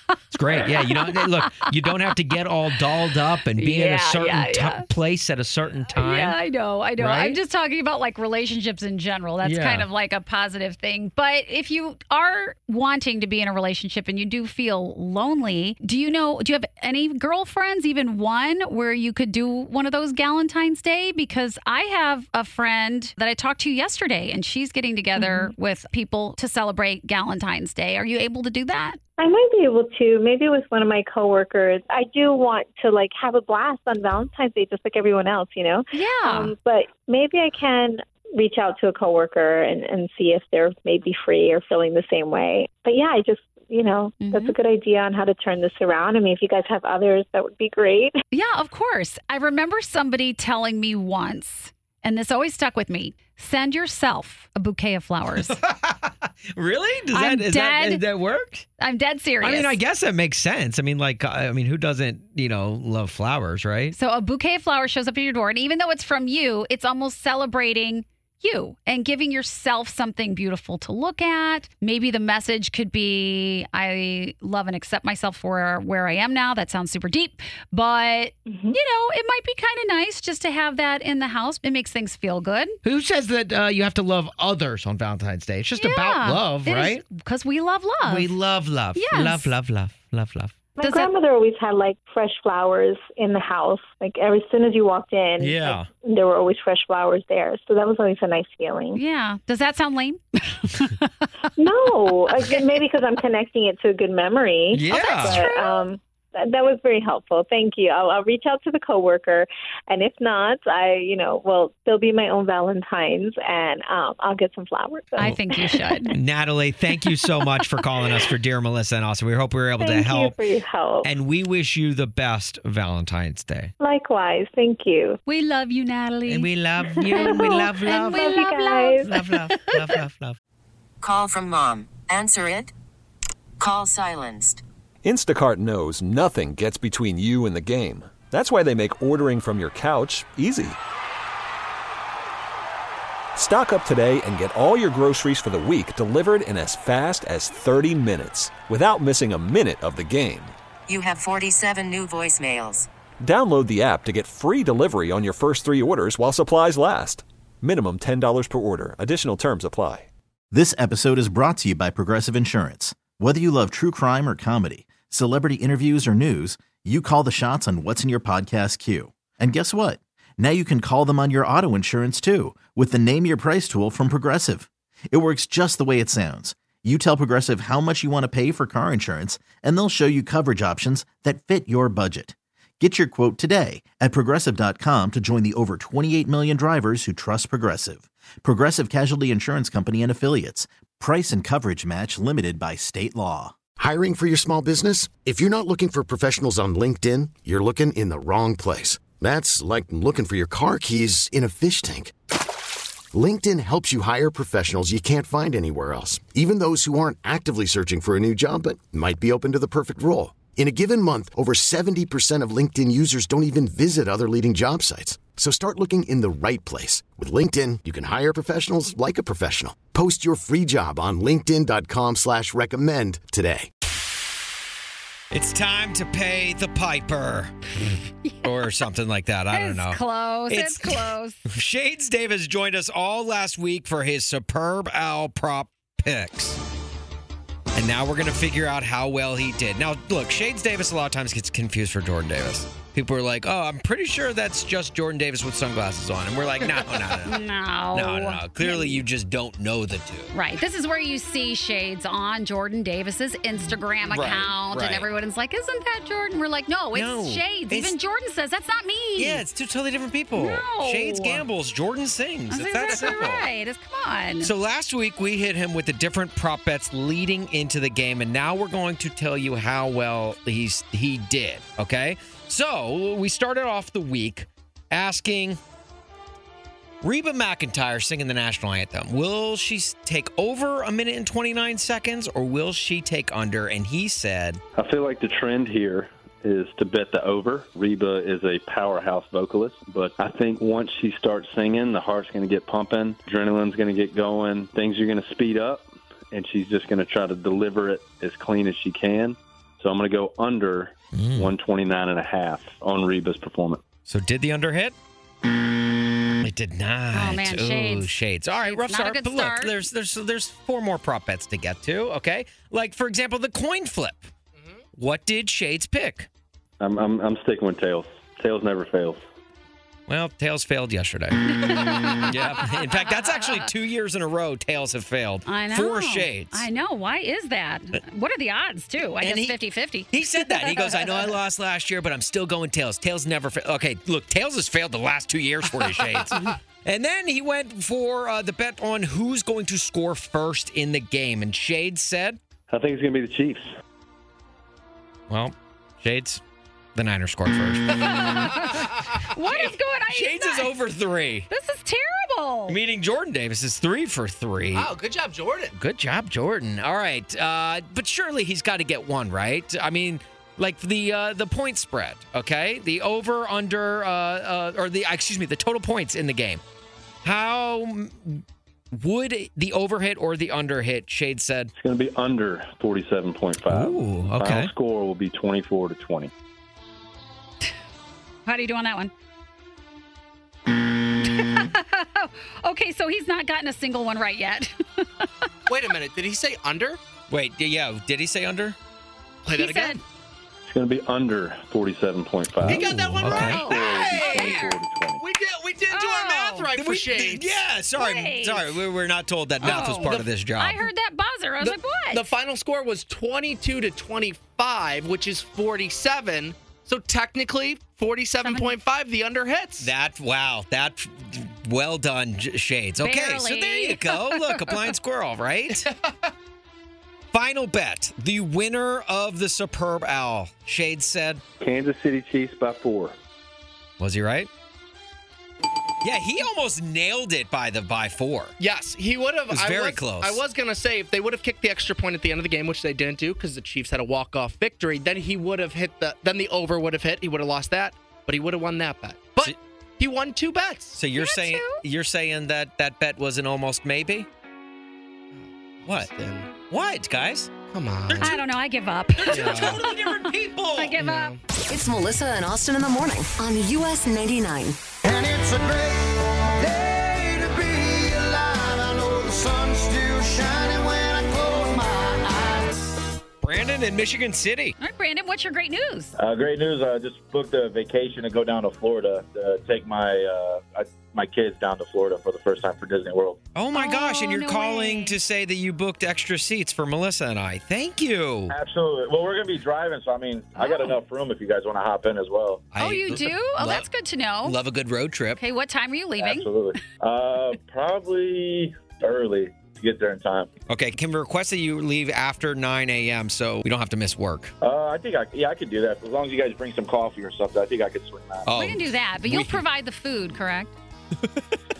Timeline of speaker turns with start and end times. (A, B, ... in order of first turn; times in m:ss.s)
0:00.3-0:06.4 A
0:00.5-0:01.7 B
0:03.6-0:04.8 B
0:05.9-0:29.0 B
0:07.0-0:07.4 A
0:09.4-0:09.8 A
0:25.2-0:25.5 C
0:29.2-0:48.2 C
0:35.9-0:36.5 B
0:44.2-0:44.5 B
0:48.3-0:55.6 B
0:55.4-0:58.6 A
0:57.1-0:58.0 B
0:58.8-0:59.8 B
0:59.4-1:03.9 A
1:03.9-1:22.8 B
1:18.5-1:18.7 C
1:22.8-1:27.0 A
1:25.8-1:28.3 B
1:28.0-1:30.5 A
1:28.9-1:29.5 B
1:30.8-1:39.0 C
1:30.8-1:31.1 B
1:35.4-1:35.9 A
1:38.9-1:41.3 B
1:41.6-1:56.1 C
1:44.7-1:45.4 A
1:44.9-1:45.9 B
1:55.2-1:56.2 B
1:56.1-2:00.4 A
1:59.8-2:01.1 C
2:01.0-2:03.7 A
2:03.8-2:05.2 C
2:05.2-2:10.0 B
2:06.3-2:08.4 A
2:07.1-2:09.1 C
2:09.0-2:10.4 A
2:11.0-2:12.7 D
2:13.6-2:14.6 D
2:15.0-2:20.8 E
2:23.3-2:30.5 E
2:30.9-2:32.9 D
2:33.2-2:40.1 E
2:40.5-3:13.5 F
3:13.8-3:22.1 G
3:23.1-3:43.7 G
3:45.3-3:47.7 A
3:48.4-3:56.6 A
3:49.5-3:51.4 B
3:57.7-4:10.3 A
4:07.2-4:09.0 B
4:10.3-4:19.4 B
4:13.6-4:15.1 A
4:16.9-4:17.9 A
4:19.2-4:23.4 A
4:20.3-4:21.4 B
4:22.5-4:24.5 B
4:24.4-4:35.6 A
4:37.0-4:44.6 A
4:44.7-5:03.8 H
5:01.1-5:01.5 A
5:04.1-5:04.9 A
5:06.4-5:14.3 A
5:07.1-5:09.7 B
5:14.6-5:14.8 I
5:15.0-5:16.3 A
5:16.8-5:19.2 H
5:20.1-5:26.6 A
5:21.6-5:23.6 B
5:25.4-5:31.2 B
5:29.2-5:29.6 A
5:30.1-5:42.4 A
5:42.7-5:43.7 H
5:45.3-5:46.4 A
5:46.9-5:48.8 A
5:48.0-5:50.7 B
5:49.4-5:51.5 A
5:51.5-5:52.8 B
5:52.7-5:54.9 A
5:54.7-5:55.7 I
5:55.7-6:06.6 A
6:07.2-6:08.4 A
6:08.9-6:11.7 A
6:11.8-6:16.3 H
6:13.7-6:14.7 A
6:18.4-6:19.1 B
6:21.2-6:25.3 B
6:25.7-6:27.0 I
6:27.3-6:28.8 A
6:29.4-6:30.0 I
6:29.5-6:30.0 B
6:30.6-6:35.2 H
6:32.6-6:34.6 A
6:32.6-6:34.6 I
6:33.2-6:34.7 B
6:35.2-6:37.6 I
6:35.9-6:36.7 B
6:36.8-6:40.8 A
6:38.0-6:38.7 B
6:39.6-6:42.2 B
6:39.7-6:40.3 I
6:41.6-6:49.9 I
6:48.4-6:48.8 B
6:49.8-6:55.8 A
6:53.0-6:54.8 B
6:57.3-7:01.4 A
7:01.6-7:03.2 H
7:04.0-7:04.5 A
7:06.0-7:08.5 A
7:08.6-7:21.0 I
7:09.5-7:10.4 A
7:21.0-7:24.3 A
7:21.2-7:21.8 B
7:25.3-7:26.5 I
7:26.7-7:27.5 A
7:27.7-7:28.4 I
7:28.1-7:28.4 A
7:28.2-7:30.2 B
7:29.2-7:31.0 A
7:29.3-7:29.8 I
7:30.8-7:31.4 B
7:31.0-7:31.4 I
7:31.7-7:34.8 J
7:35.0-7:42.8 K
7:43.4-7:44.8 A
7:44.8-7:46.1 B
7:46.2-7:53.4 L
7:53.5-7:58.6 A
7:53.7-7:55.2 B
7:58.5-8:02.6 L
8:00.6-8:00.9 B
8:02.7-8:03.8 A
8:02.8-8:04.6 B
8:04.4-8:05.4 A
8:05.4-8:06.5 B
8:06.2-8:10.5 L
8:10.7-8:14.5 A
8:14.6-8:18.5 L
8:18.4-8:19.6 A
8:18.6-8:20.7 B
8:21.2-8:21.5 A